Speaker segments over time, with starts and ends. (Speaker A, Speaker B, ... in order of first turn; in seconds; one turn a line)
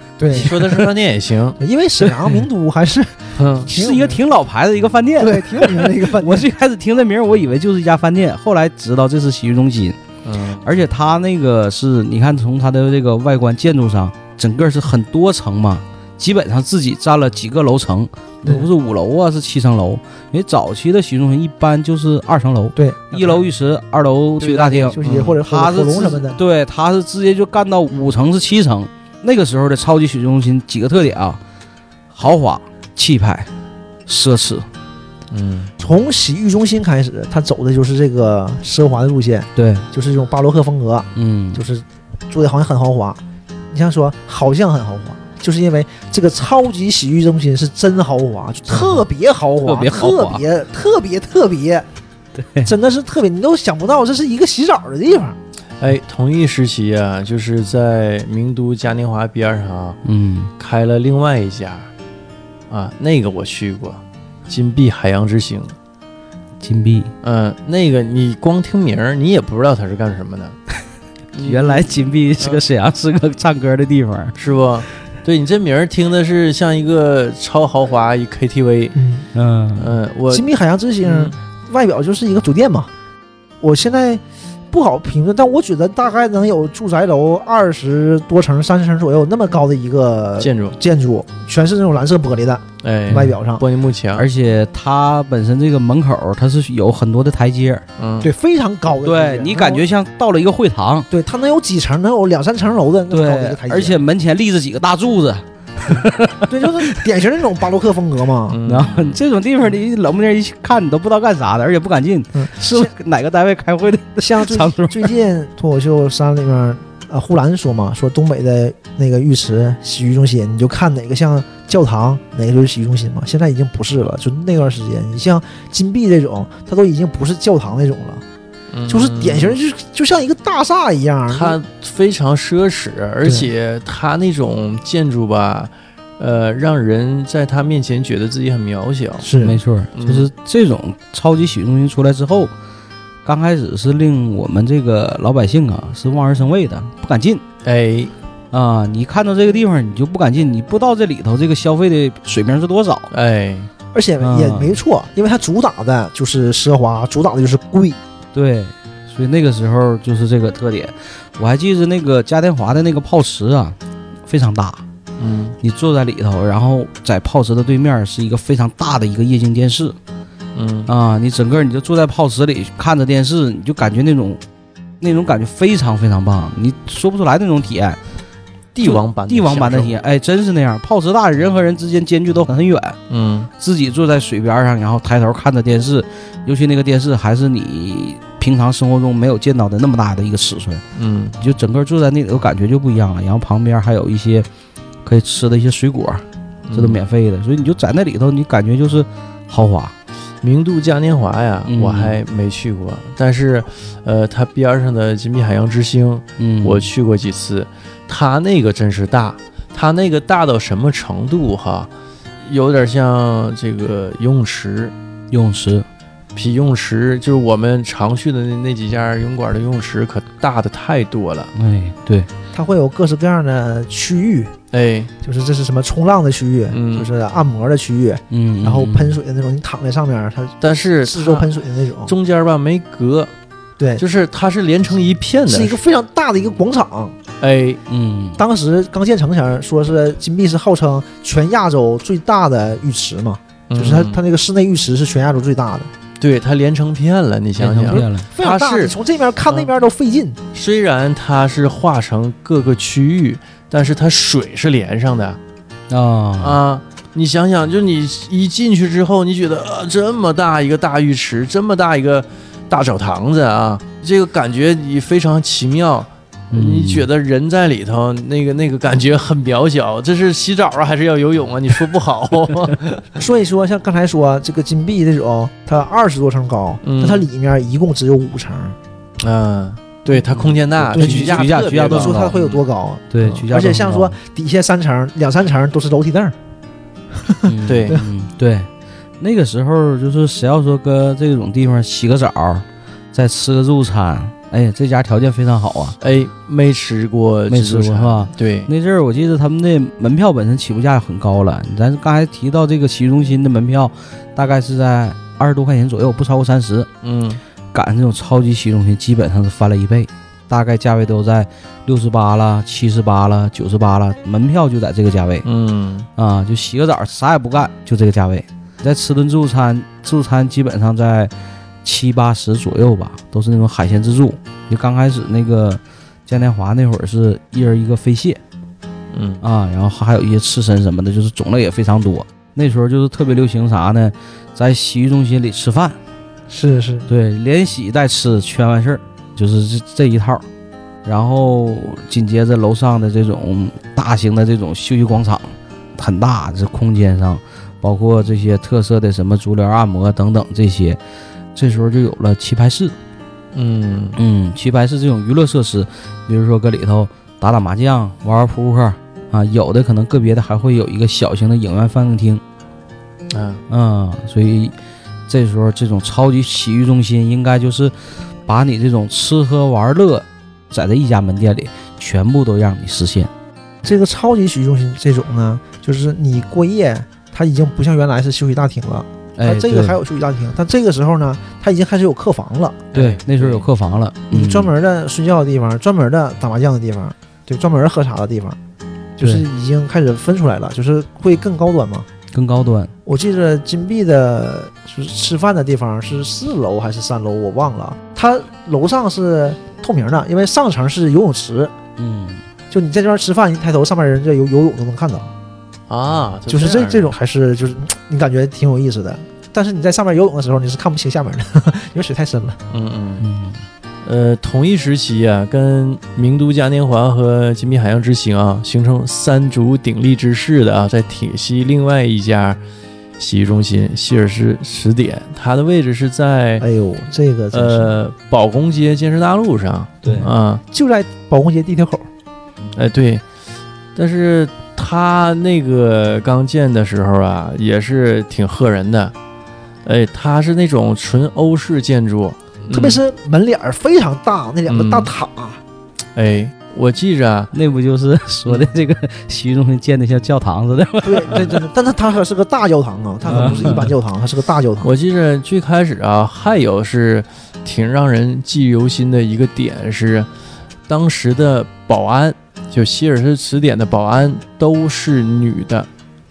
Speaker A: 0.2-0.8
Speaker B: 0.3-1.6
Speaker C: 0.4-0.8
Speaker A: 1.6-4.2
Speaker B: 3.4-3.7
Speaker C: 3.7-10.0
Speaker A: 5.2-6.5
Speaker B: 10.2-10.7
Speaker C: 10.6-31.4
Speaker A: 18.4-18.7
Speaker A: 22.8-23.4
Speaker A: 24.4-26.4
Speaker B: 24.5-25.4
Speaker C: 32.1-33.5
Speaker C: 34.1-34.7
Speaker B: 35.3-35.7
Speaker A: 35.8-43.2
Speaker C: 39.6-39.9
Speaker C: 41.2-41.6
Speaker A: 43.7-51.9
Speaker C: 48.7-49.0
Speaker C: 49.6-50.4
Speaker C: 52.4-52.7
Speaker A: 52.6-55.4
Speaker B: 55.8-60.0
Speaker C: 60.0-60.5
Speaker B: 60.6-61.9
Speaker B: 62.7-65.8
Speaker C: 66.6-67.1
Speaker B: 67.2-70.6
Speaker B: 71.3-72.6
Speaker C: 71.4-74.3
Speaker B: 74.4-79.0
Speaker A: 79.0-79.3
Speaker C: 79.3-79.9
Speaker B: 79.8-80.5
Speaker A: 80.3-82.9
Speaker B: 81.0-81.4
Speaker A: 83.6-93.6
Speaker B: 90.4-90.8
Speaker B: 92.8-94.3
Speaker C: 93.1-93.4
Speaker C: 94.2-97.8
Speaker B: 98.0-98.3
Speaker A: 98.2-99.9
Speaker C: 99.0-101.1
Speaker A: 101.1-104.0
Speaker C: 103.1-107.0
Speaker A: 105.9-108.6
Speaker B: 108.5-109.2
Speaker C: 108.7-115.1
Speaker A: 112.3-112.9
Speaker A: 114.2-128.2
Speaker B: 128.7-129.6
Speaker A: 128.9-131.6
Speaker B: 131.3-139.3
Speaker A: 139.2-139.6
Speaker C: 139.4-142.5
Speaker B: 139.9-140.3
Speaker C: 143.2-147.4
Speaker B: 147.6-148.1
Speaker C: 148.5-153.1
Speaker B: 153.1-153.7
Speaker A: 153.9-158.0
Speaker C: 154.2-154.8
Speaker C: 158.3-164.8
Speaker B: 165.2-165.6
Speaker C: 165.6-170.0
Speaker B: 170.6-170.9
Speaker C: 170.9-174.4
Speaker C: 175.0-178.0
Speaker B: 178.7-179.9
Speaker C: 178.8-183.0
Speaker B: 183.1-183.5
Speaker C: 183.6-190.8
Speaker B: 190.9-191.4
Speaker C: 191.4-194.5
Speaker C: 195.1-199.9
Speaker B: 196.7-197.0
Speaker B: 200.4-211.9
Speaker C: 201.7-202.2
Speaker C: 206.4-206.9
Speaker B: 212.4-214.9
Speaker C: 215.3-215.9
Speaker B: 216.4-221.5
Speaker C: 221.6-222.3
Speaker A: 222.5-224.6
Speaker B: 224.7-225.1
Speaker A: 225.2-232.1
Speaker B: 226.7-227.1
Speaker C: 228.3-229.2
Speaker B: 230.6-233.3
Speaker B: 234.0-235.8
Speaker A: 235.5-237.2
Speaker B: 237.4-237.8
Speaker C: 237.9-238.4
Speaker A: 238.4-245.9
Speaker B: 243.7-244.2
Speaker B: 246.2-248.9
Speaker C: 247.6-248.3
Speaker A: 247.8-250.4
Speaker B: 250.5-255.4
Speaker C: 255.9-256.6
Speaker B: 256.4-273.2
Speaker C: 266.5-267.1
Speaker A: 273.2-278.8
Speaker B: 276.8-277.3
Speaker B: 279.2-282.6
Speaker A: 280.8-286.3
Speaker C: 280.9-282.4
Speaker C: 283.1-284.1
Speaker A: 287.2-288.0
Speaker C: 287.4-288.7
Speaker B: 287.7-288.0
Speaker C: 289.2-296.0
Speaker B: 296.0-298.7
Speaker C: 297.5-306.9
Speaker B: 307.0-307.4
Speaker C: 307.7-315.5
Speaker B: 315.4-316.1
Speaker C: 316.2-321.3
Speaker C: 321.8-328.4
Speaker B: 329.1-329.4
Speaker C: 329.4-336.0
Speaker A: 336.5-337.1
Speaker C: 337.1-340.4
Speaker C: 341.1-351.0
Speaker C: 351.6-352.9
Speaker B: 353.5-354.2
Speaker C: 354.2-362.4
Speaker B: 363.3-363.6
Speaker C: 363.7-364.7
Speaker C: 365.3-367.9
Speaker C: 368.4-373.3
Speaker A: 373.8-382.9
Speaker C: 379.4-380.0
Speaker B: 382.9-383.7
Speaker C: 382.9-384.7
Speaker A: 384.3-388.6
Speaker A: 389.2-392.1
Speaker C: 392.3-392.9
Speaker A: 393.1-401.7
Speaker C: 402.0-402.4
Speaker A: 402.7-405.3
Speaker B: 405.9-407.2
Speaker A: 406.5-412.6
Speaker B: 412.7-413.2
Speaker C: 413.2-413.6
Speaker B: 414.0-422.6
Speaker B: 423.2-426.6
Speaker A: 426.6-427.9
Speaker B: 427.5-430.6
Speaker C: 430.0-430.3
Speaker A: 430.0-432.1
Speaker B: 432.7-433.2
Speaker B: 433.9-439.1
Speaker B: 439.9-443.0
Speaker A: 442.7-445.6
Speaker B: 444.7-445.1
Speaker B: 446.1-447.5
Speaker C: 447.5-451.6
Speaker A: 451.0-454.9
Speaker C: 453.3-453.9
Speaker B: 453.3-453.9
Speaker B: 454.8-460.3
Speaker B: 460.9-465.9